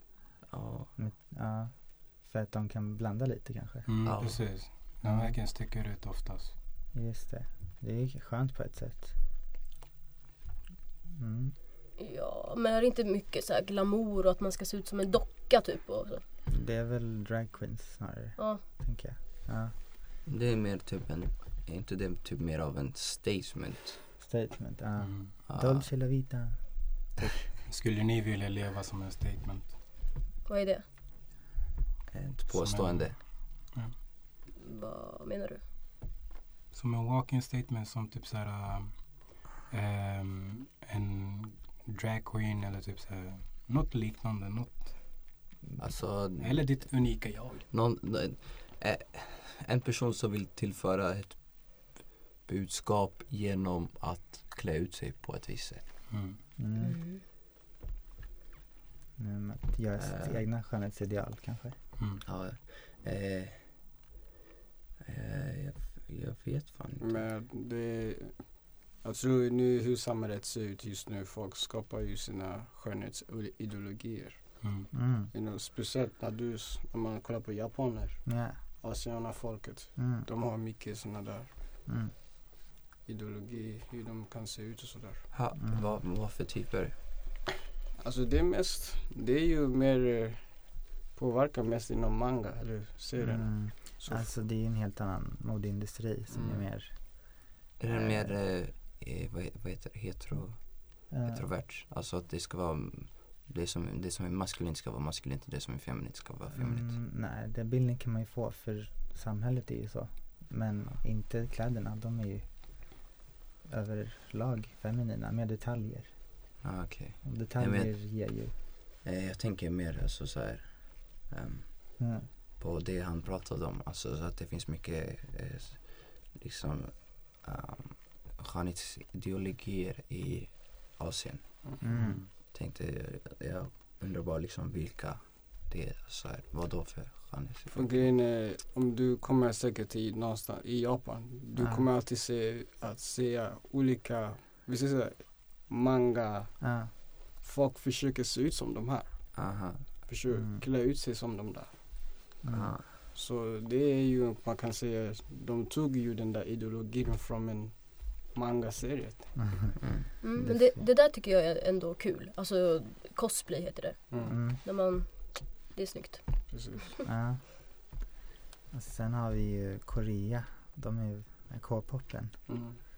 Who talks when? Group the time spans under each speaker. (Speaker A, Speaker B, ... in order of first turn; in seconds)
Speaker A: 0.5-0.9, 4.0-4.6, 20.3-24.0, 25.5-25.9, 32.1-33.2, 45.8-55.8, 60.0-60.4, 62.2-63.9, 65.0-67.3, 85.3-87.0, 97.8-107.0, 116.6-118.4, 119.0-131.7, 132.3-138.1, 149.3-150.1, 152.5-153.0, 159.8-160.1
Speaker B: 0.9-4.4, 5.0-5.4, 6.9-9.2, 11.1-11.5, 16.5-19.7, 24.2-27.4, 56.6-57.0, 59.2-61.8, 74.9-75.3, 78.2-78.6, 80.0-80.3, 81.8-82.1, 85.5-86.0, 93.2-98.4, 101.1-101.5, 106.5-113.1, 113.6-116.4, 117.2-118.5, 122.0-122.3, 131.8-132.2, 141.5-141.9, 146.6-146.9, 150.3-150.6, 152.4-152.8, 159.3-160.8, 164.2-164.6, 167.0-167.5, 168.7-172.8
Speaker C: 3.9-6.5, 25.0-25.3, 27.7-29.7, 32.5-33.9, 36.7-45.2, 46.1-47.7, 56.1-56.4, 74.6-74.9, 131.9-132.3
Speaker D: 12.0-16.2, 30.4-30.8, 34.6-35.6, 56.8-57.2, 160.2-166.8
Speaker E: 67.0-81.5, 83.0-85.3, 88.0-94.3, 96.3-96.7, 137.7-152.4, 153.1-159.4, 166.5-167.0, 172.5-172.8